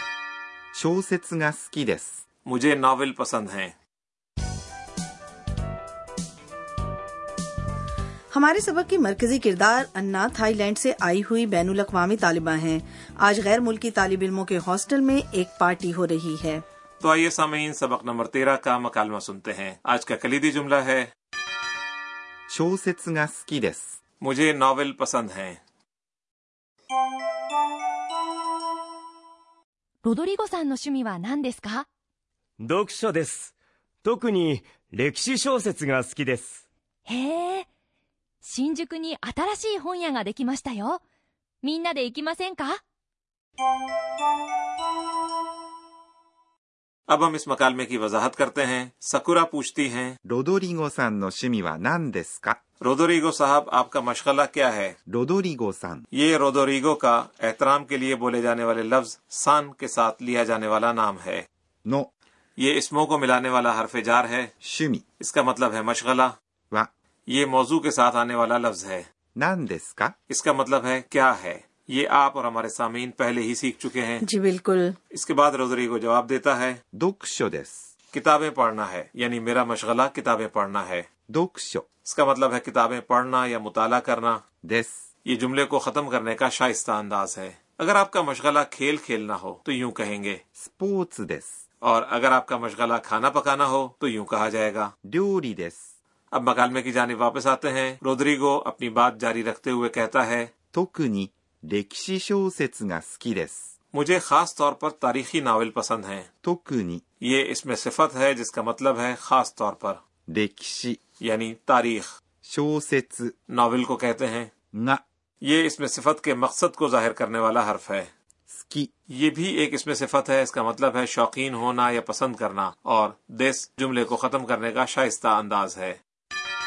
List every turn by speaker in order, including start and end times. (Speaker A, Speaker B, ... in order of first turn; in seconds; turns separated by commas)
Speaker A: 0.7-2.1, Speaker B: 2.5-3.7, Speaker C: 8.3-16.6, Speaker B: 17.0-21.1, Speaker A: 22.5-23.9, Speaker B: 24.2-25.6, Speaker D: 30.0-31.9, Speaker E: 32.7-33.3, Speaker E: 34.1-36.4, Speaker D: 37.0-37.6, Speaker D: 38.4-41.0, Speaker D: 41.6-42.8, Speaker B: 47.1-50.2, Speaker A: 50.2-52.6, Speaker B: 52.8-55.0, Speaker A: 55.1-56.0, Speaker B: 56.1-61.5, Speaker A: 61.8-62.1, Speaker B: 62.6-64.5, Speaker A: 64.6-65.0, Speaker B: 65.2-66.3, Speaker B: 67.3-69.0, Speaker A: 69.3-70.1, Speaker B: 70.3-74.2, Speaker C: 74.2-74.9, Speaker B: 75.1-76.8, Speaker A: 76.9-77.8, Speaker B: 78.1-81.1, Speaker A: 81.3-81.8, Speaker B: 82.0-84.4, Speaker A: 84.6-84.9, Speaker B: 85.2-90.4, Speaker A: 90.6-91.5, Speaker B: 91.8-94.9, Speaker A: 95.0-95.8, Speaker B: 96.3-100.5, Speaker A: 100.7-103.6, Speaker B: 103.9-106.3, Speaker A: 106.4-107.0, Speaker B: 107.2-110.0, Speaker A: 110.3-111.0, Speaker B: 111.2-112.1, Speaker A: 112.4-113.3, Speaker B: 113.5-114.5, Speaker A: 114.7-115.0, Speaker B: 115.4-118.1, Speaker A: 118.5-118.9, Speaker B: 119.1-126.0